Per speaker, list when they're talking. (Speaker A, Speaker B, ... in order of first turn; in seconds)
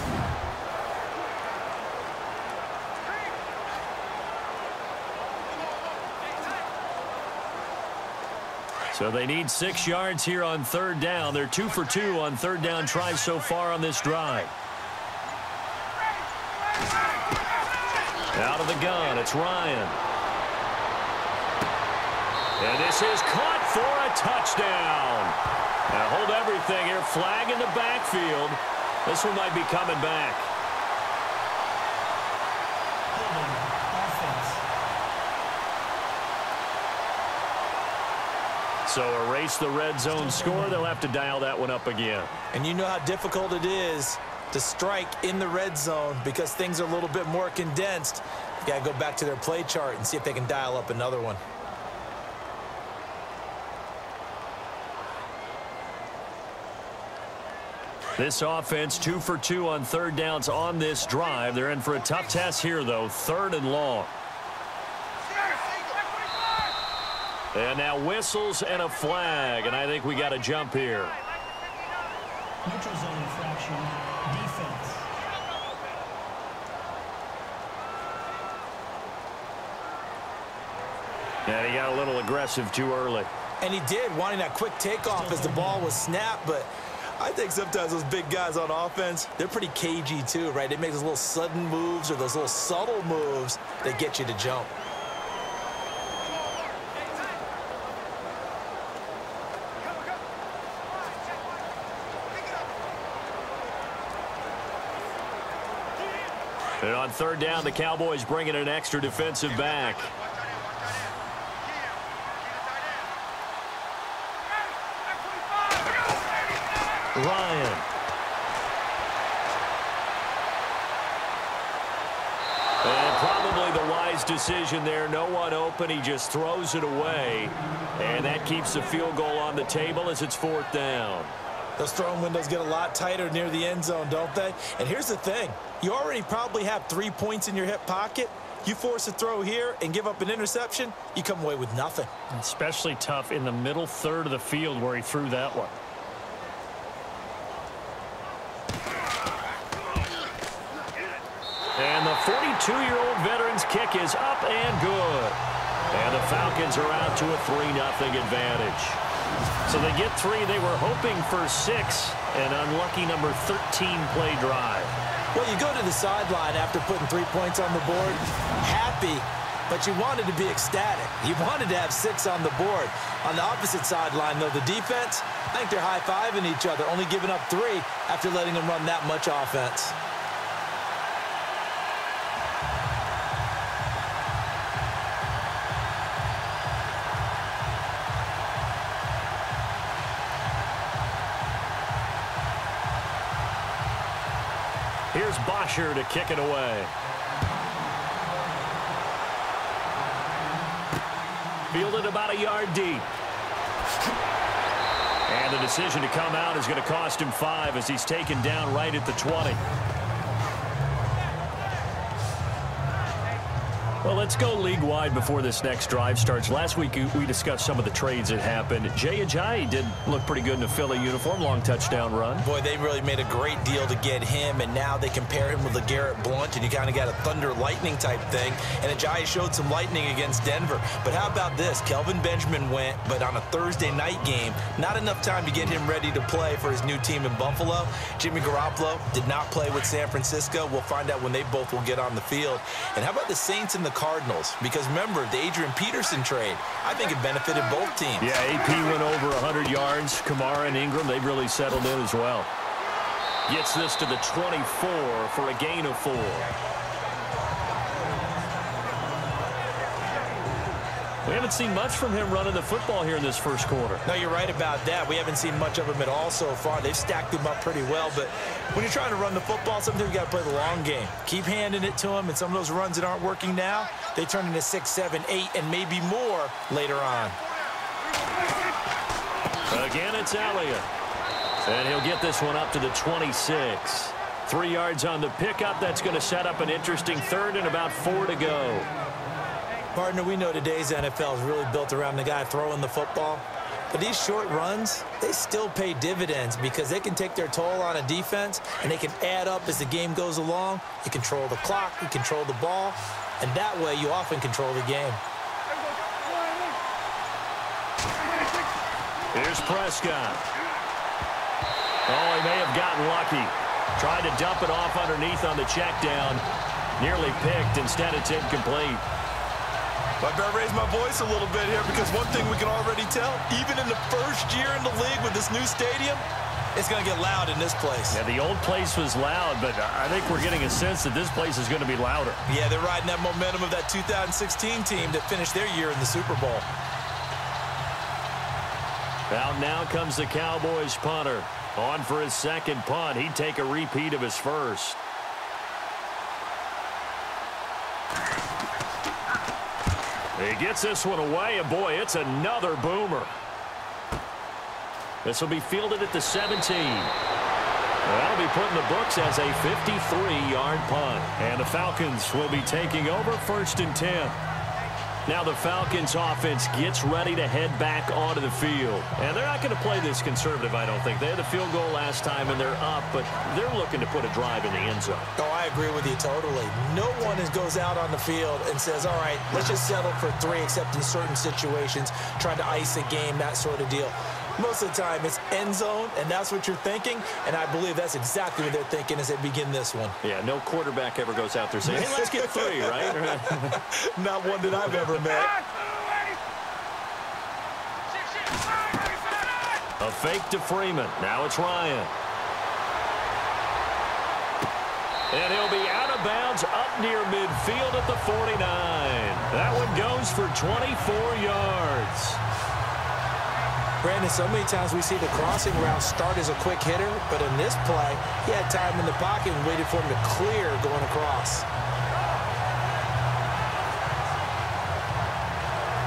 Speaker A: 8.9-14.5, 18.3-20.0, 22.6-25.4, 25.9-30.5, 38.9-42.3, 58.2-64.1, 67.5-71.2, 81.5-83.3, 106.8-110.1, 117.2-117.9, 122.8-131.3, 142.3-145.8, 151.8-155.4, 155.9-159.0, 159.7-165.0, 195.1-196.9, 201.7-203.1, 205.3-209.6, 214.0-222.5, 248.2-252.5, 253.5-256.5, 261.2-264.0, 279.7-280.9, 281.7-288.9, 309.3-310.4, 312.1-316.4, 317.0-319.0, 328.1-332.4, 339.3-345.0, 350.4-353.3, 355.2-357.1, 358.1-364.4, 365.3-375.3, 390.2-393.8, 400.0-402.1, 405.3-412.4
Speaker B: 33.1-34.7, 40.1-40.8, 72.6-75.1, 85.1-86.0
Speaker C: 42.5-51.4, 83.6-94.7, 131.8-142.1, 165.3-180.0, 222.4-248.4, 264.1-277.4, 289.9-305.2, 320.2-326.2, 326.8-328.2, 332.5-336.7, 375.4-390.2, 391.8-395.6, 414.0-421.7